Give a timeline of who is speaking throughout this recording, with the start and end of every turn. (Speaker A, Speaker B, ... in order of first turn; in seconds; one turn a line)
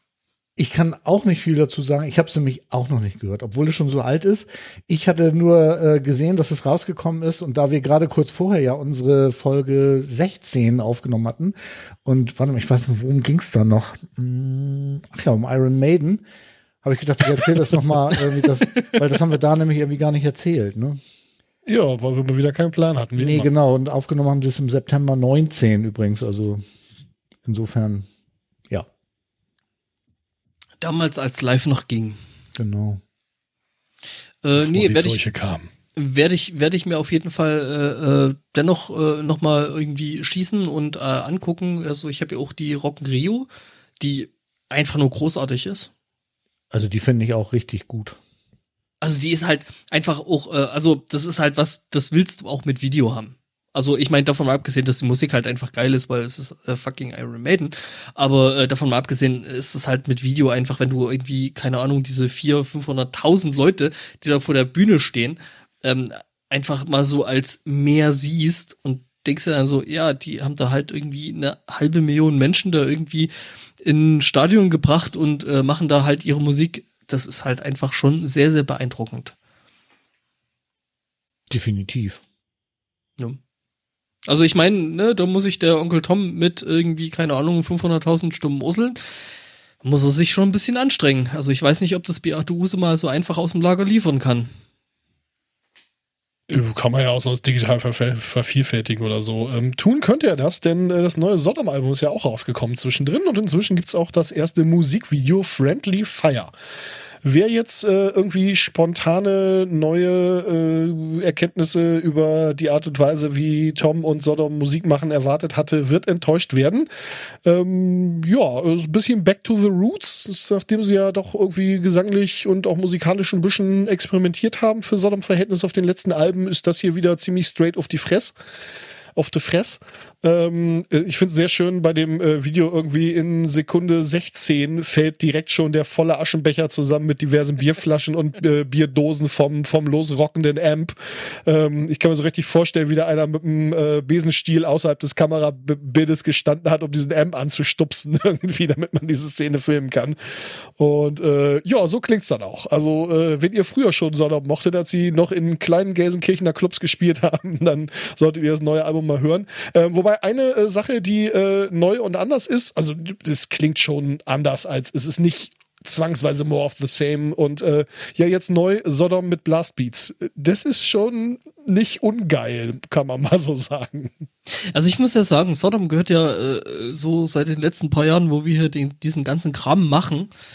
Speaker A: 0.6-16.2
Speaker A: 16.8-21.0
Speaker B: 18.1-19.0
Speaker C: 21.7-23.5
Speaker A: 23.2-26.6
Speaker A: 27.5-28.1
Speaker B: 30.8-32.2
Speaker A: 32.6-33.0
Speaker B: 34.4-35.2
Speaker C: 34.6-35.7
Speaker B: 36.0-43.5
Speaker B: 44.0-45.9
Speaker A: 46.7-48.2
Speaker B: 49.0-73.3
Speaker B: 73.8-79.3
Speaker A: 81.5-82.2
Speaker B: 84.3-89.0
Speaker B: 89.8-94.5
Speaker C: 96.5-106.5
Speaker C: 107.2-116.9
Speaker C: 117.4-128.3
Speaker C: 129.2-174.3
Speaker B: 174.6-180.3